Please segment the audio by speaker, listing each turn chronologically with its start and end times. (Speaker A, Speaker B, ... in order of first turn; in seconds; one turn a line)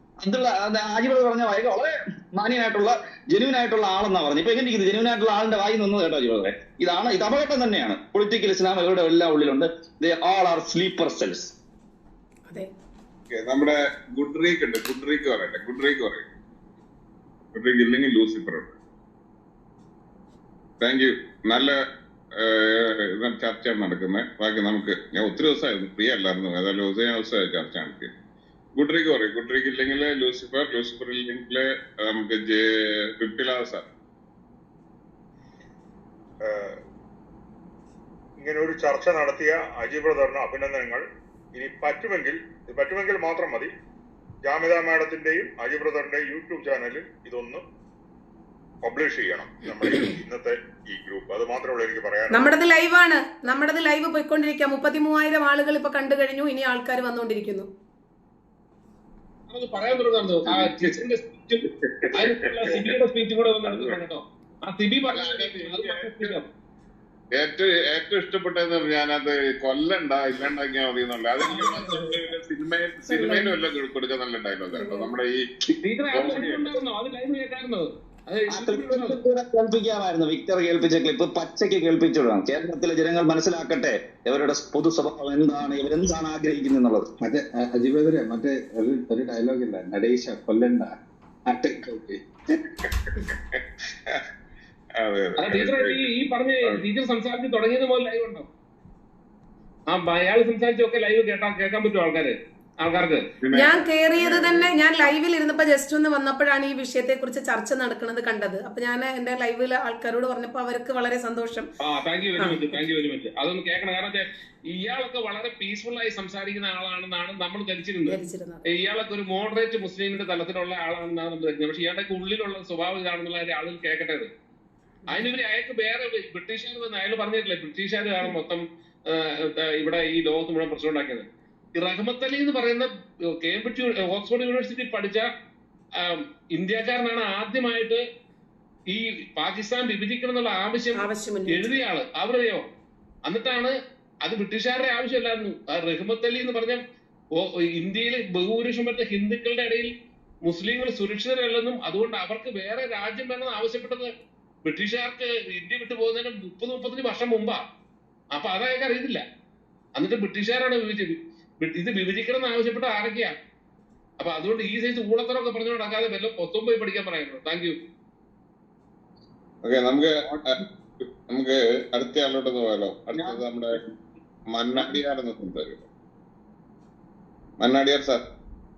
Speaker A: 0.2-11.5
Speaker B: 13.3-16.3
Speaker B: 17.5-18.8
Speaker B: 20.8-21.8
Speaker B: 22.4-28.1
Speaker B: 28.8-32.6
Speaker B: 33.2-33.9
Speaker C: 36.4-36.8
Speaker C: 38.4-41.0
Speaker C: 41.5-43.7
Speaker C: 44.4-47.6
Speaker C: 48.8-52.5
Speaker D: 49.9-50.1
Speaker D: 52.3-57.7
Speaker E: 59.5-66.5
Speaker B: 65.1-66.4
Speaker B: 67.3-75.4
Speaker E: 71.4-71.9
Speaker D: 73.1-73.6
Speaker D: 74.7-75.1
Speaker E: 75.8-79.2
Speaker B: 76.1-76.8
Speaker A: 78.5-87.1
Speaker F: 87.2-91.0
Speaker F: 91.5-92.2
Speaker B: 92.8-94.2
Speaker B: 95.0-96.1
Speaker E: 95.4-98.5
Speaker E: 99.9-103.2
Speaker B: 103.4-104.8
Speaker D: 103.5-111.7
Speaker E: 111.8-118.2
Speaker D: 112.4-112.8
Speaker D: 118.1-118.7
Speaker E: 118.7-124.3
Speaker E: 125.1-131.2
Speaker E: 131.8-132.9
Speaker E: 133.4-135.3
Speaker E: 136.0-138.0
Speaker E: 138.9-142.6
Speaker D: 140.9-141.8
Speaker E: 143.3-146.8
Speaker E: 147.3-149.9
Speaker E: 150.4-154.1
Speaker E: 154.7-157.6
Speaker E: 158.3-159.2
Speaker E: 160.0-163.3
Speaker E: 164.2-167.8
Speaker B: 169.6-170.5
Speaker B: 171.3-173.8
Speaker B: 174.5-175.9
Speaker B: 177.6-178.2